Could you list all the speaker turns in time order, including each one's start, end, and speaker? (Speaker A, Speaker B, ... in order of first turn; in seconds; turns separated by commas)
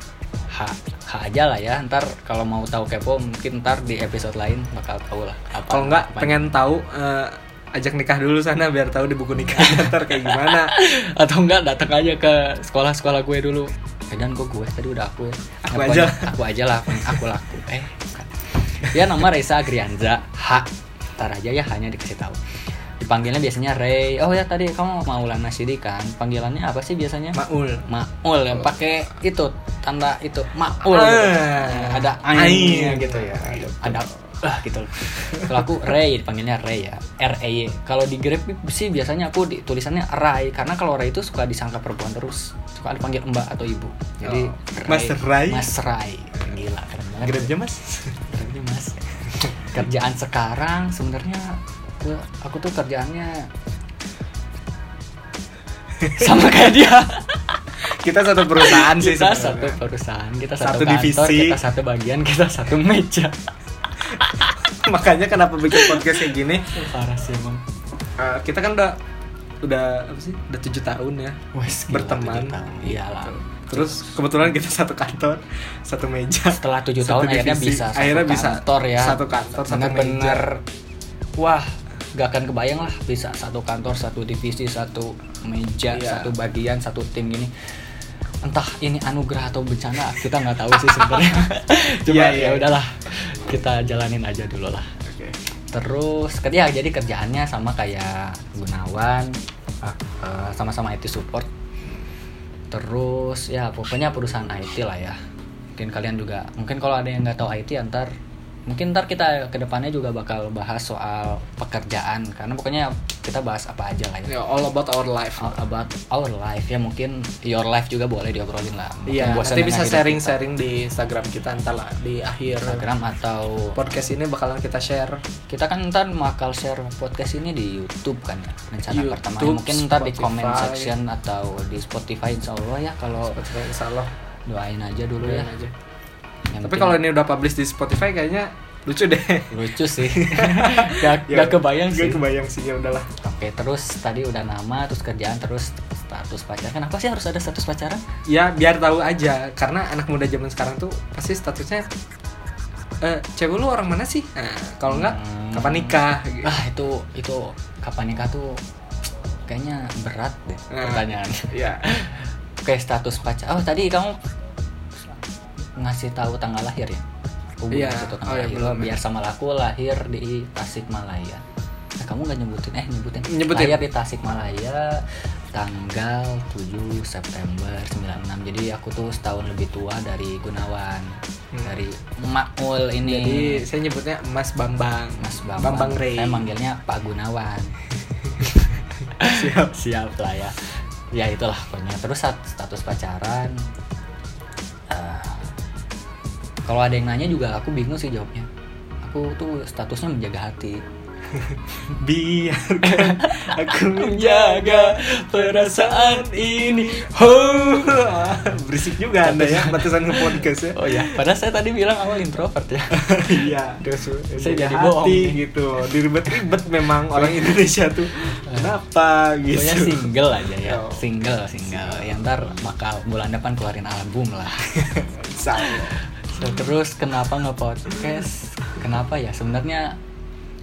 Speaker A: 0.5-6.5, Speaker B: 5.7-10.7, Speaker A: 9.5-22.4, Speaker B: 15.6-16.3, Speaker B: 16.9-17.2, Speaker A: 23.0-47.6, Speaker B: 27.3-27.9, Speaker B: 30.8-34.3, Speaker B: 35.0-35.9, Speaker B: 44.2-45.7, Speaker B: 47.2-48.3, Speaker A: 48.3-53.5, Speaker B: 49.4-49.7, Speaker B: 56.0-56.3, Speaker A: 56.1-57.6, Speaker B: 57.8-59.8, Speaker A: 58.5-63.4, Speaker B: 60.6-61.6, Speaker A: 64.0-64.6, Speaker B: 64.1-66.8, Speaker A: 65.7-66.2, Speaker A: 66.7-67.6, Speaker B: 68.2-69.0, Speaker B: 69.6-80.5, Speaker A: 71.5-74.2, Speaker A: 76.5-80.6, Speaker A: 81.4-87.5, Speaker B: 85.9-86.3, Speaker A: 88.4-94.9, Speaker B: 92.0-92.7, Speaker B: 95.0-95.4, Speaker A: 95.7-101.5, Speaker A: 102.7-105.2, Speaker A: 105.8-108.1, Speaker A: 108.7-114.3, Speaker B: 114.3-115.5, Speaker A: 115.4-120.4, Speaker B: 119.1-122.8, Speaker A: 122.6-124.1, Speaker B: 123.8-125.2, Speaker A: 125.5-133.5, Speaker B: 128.9-130.9, Speaker B: 133.3-134.1, Speaker A: 134.5-135.5, Speaker B: 135.2-135.7, Speaker A: 136.5-137.0, Speaker B: 136.6-143.1, Speaker A: 139.5-142.2, Speaker A: 143.2-148.0, Speaker B: 148.3-151.8, Speaker B: 153.0-156.6, Speaker A: 154.9-158.6, Speaker A: 159.5-164.2, Speaker B: 160.7-161.9, Speaker A: 165.8-167.0, Speaker A: 167.6-171.4, Speaker B: 167.7-169.0, Speaker A: 172.0-181.1, Speaker B: 173.2-173.8, Speaker B: 181.5-181.8, Speaker A: 181.7-183.6, Speaker B: 183.0-186.4, Speaker A: 185.2-187.7, Speaker B: 188.2-189.7, Speaker A: 189.2-190.6, Speaker A: 191.1-193.6, Speaker A: 194.9-195.5, Speaker A: 196.7-198.5, Speaker A: 199.0-200.8, Speaker B: 201.3-211.1, Speaker A: 202.8-207.3, Speaker A: 209.2-215.4, Speaker B: 212.9-221.1, Speaker A: 217.1-217.5, Speaker A: 218.5-218.8, Speaker A: 219.5-230.0, Speaker B: 221.6-222.3, Speaker B: 224.9-226.0